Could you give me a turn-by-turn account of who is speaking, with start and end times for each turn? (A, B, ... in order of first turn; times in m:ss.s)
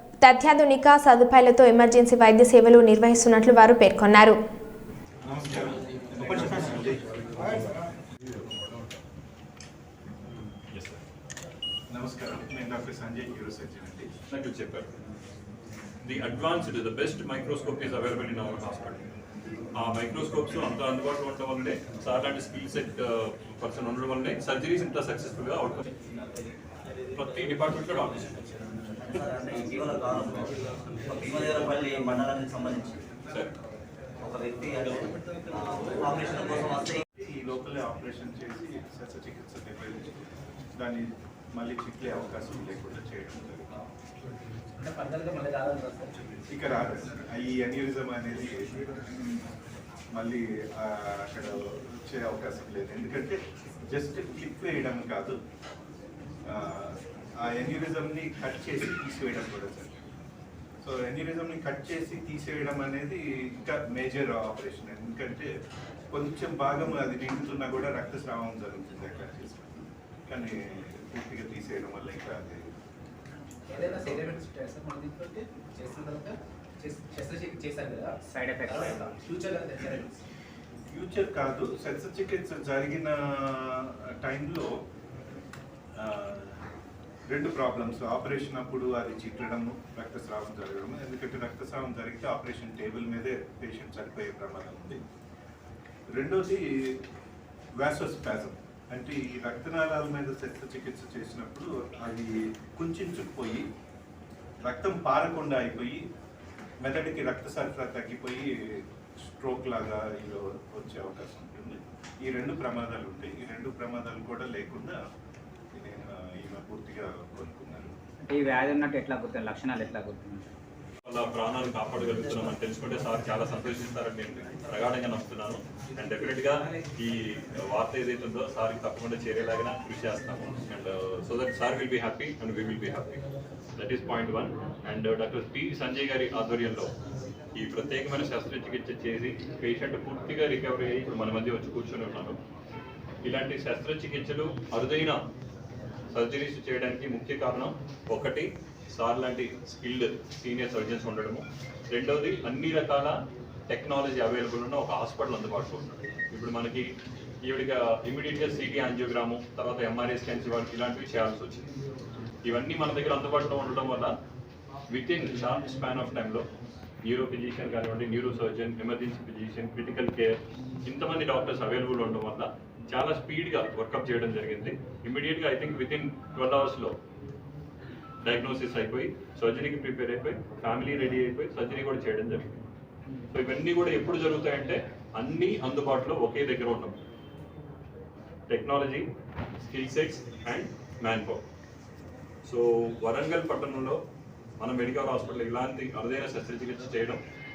0:00.2-0:04.4 A
0:05.2-0:07.0 B
0:10.7-0:11.0 C
0:11.9-0:14.1 B
0:14.3-0:14.9 C
0:16.0-0:19.0 C
0:19.8-0:25.9 C
0:27.2-0:28.3 C
0:29.0-0:30.5 D
0:31.1-0:33.0 D
0:34.2-0:37.0 D
0:37.2-0:43.7 B
0:44.8-0:46.1 E
0:46.5-0:48.9 B
0:50.1-0:55.4 B
0:56.5-1:00.2 B
1:00.8-1:05.5 B
1:06.1-1:12.7 B
1:13.7-1:20.2 E
1:18.2-1:19.1 F
1:20.9-1:24.8 B
1:26.0-1:26.6 B
1:27.3-1:35.0 B
1:36.1-1:37.0 B
1:37.8-1:43.7 B
1:44.6-1:46.0 B
1:46.8-1:55.0 B
1:55.7-1:58.0 B
1:58.3-2:00.5 F
2:01.0-2:13.2 C
2:13.8-2:16.9 C
2:17.6-2:22.4 C
2:23.2-2:25.2 C
2:26.1-2:41.6 C
2:42.4-2:44.2 C
2:44.9-2:46.4 C
2:47.0-2:57.0 C
2:58.2-3:02.4 C
3:03.3-3:07.0 C
3:08.5-3:09.0 C
3:09.6-3:11.4 C
3:12.4-3:14.0 C
3:14.6-3:17.2 C